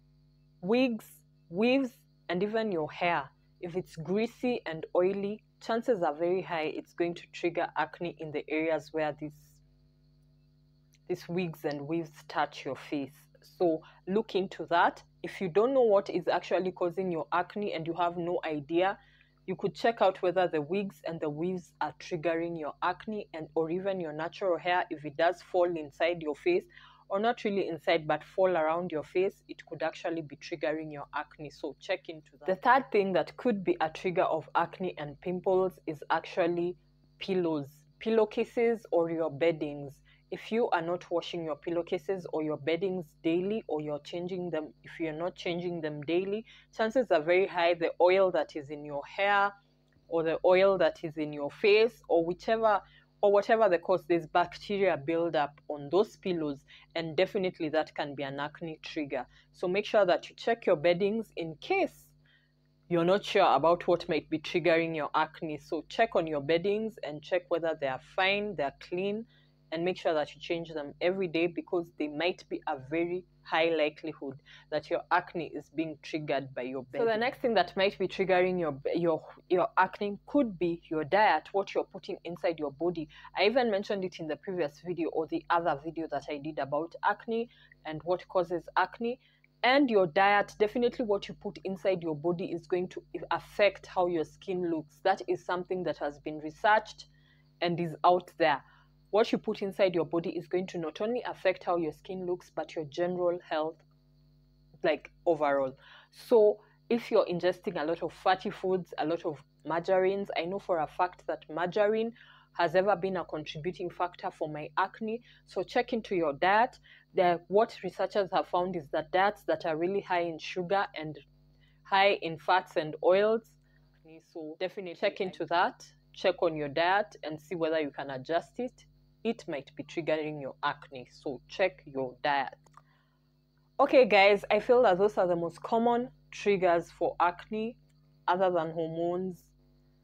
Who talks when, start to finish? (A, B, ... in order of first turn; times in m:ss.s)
0:00.6-0:09.6 A
0:11.1-0:49.5 A
0:50.1-1:02.1 A
1:02.9-1:37.1 A
1:37.6-1:43.8 A
1:44.8-2:01.2 A
2:01.8-2:12.6 A
2:13.8-2:19.5 A